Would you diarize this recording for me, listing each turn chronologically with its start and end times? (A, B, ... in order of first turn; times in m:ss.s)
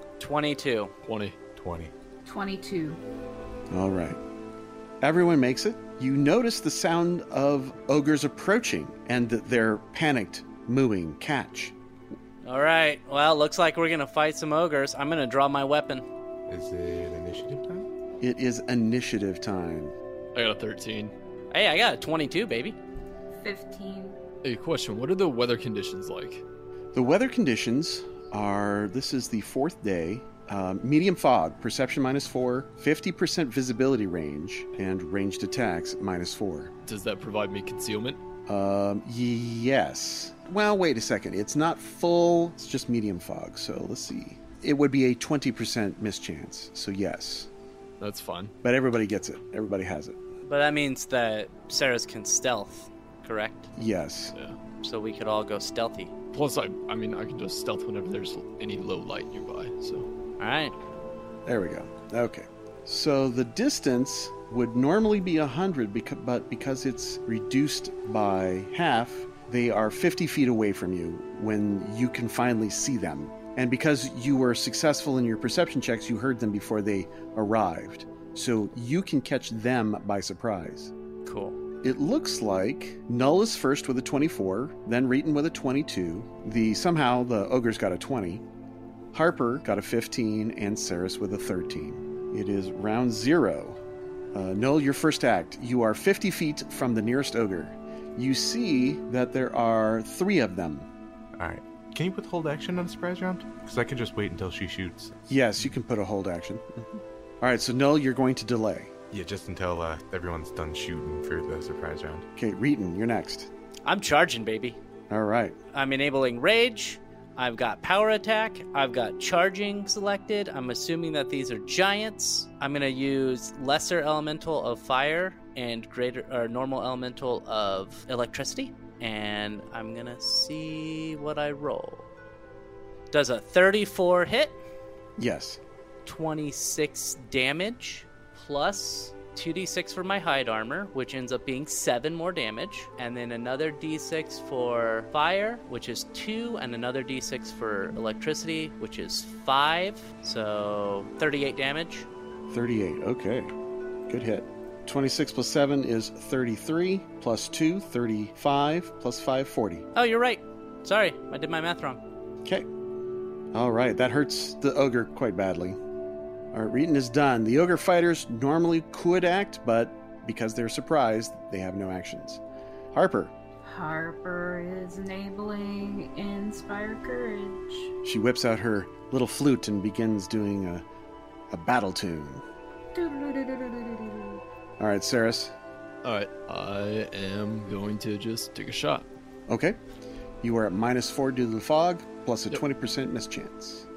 0:00.2-0:00.9 A
0:01.0-0:01.4 B
0:01.6-0:01.9 C
0:02.2-0:03.0 D
0:03.7-0:04.2 E
0:05.0-0:11.8 E
0:12.4-0:16.0 A
0:16.5-0:17.9 C
0:18.2-0:19.9 E
0:20.4-0:21.1 B
0:21.5-0:22.8 A
0:23.4-0:24.2 D
0:24.4-0:26.4 B
0:26.9-0:36.7 E
0:36.8-0:38.2 B
0:38.5-0:47.5 E
0:48.0-0:48.5 B
0:48.6-0:50.2 E
0:50.4-0:53.7 A
0:53.8-0:54.3 E
0:54.8-0:56.1 A
0:56.3-1:00.1 B
1:00.4-1:00.8 A
1:01.5-1:20.9 E
1:21.3-1:21.6 A
1:21.8-1:28.4 E
1:29.1-1:33.8 E
1:34.3-1:40.9 E
1:41.4-1:45.2 C
1:45.3-1:48.9 E
1:49.1-1:52.3 C
1:52.4-1:53.5 E
1:53.9-1:54.8 A
1:55.1-1:55.6 E
1:55.7-2:12.1 A
2:13.1-2:14.6 A
2:15.2-2:15.6 E
2:16.1-2:32.1 A
2:32.5-2:33.5 E
2:34.1-2:39.9 E
2:40.0-2:42.0 A
2:43.5-2:45.8 E
2:46.5-2:52.4 E
2:52.9-2:53.3 E
2:53.6-2:57.9 D
2:58.0-3:00.8 E
3:01.5-3:02.4 E
3:02.9-3:04.4 D
3:04.8-3:05.6 E
3:06.0-3:09.1 B
3:09.5-3:09.8 E
3:10.4-3:13.9 E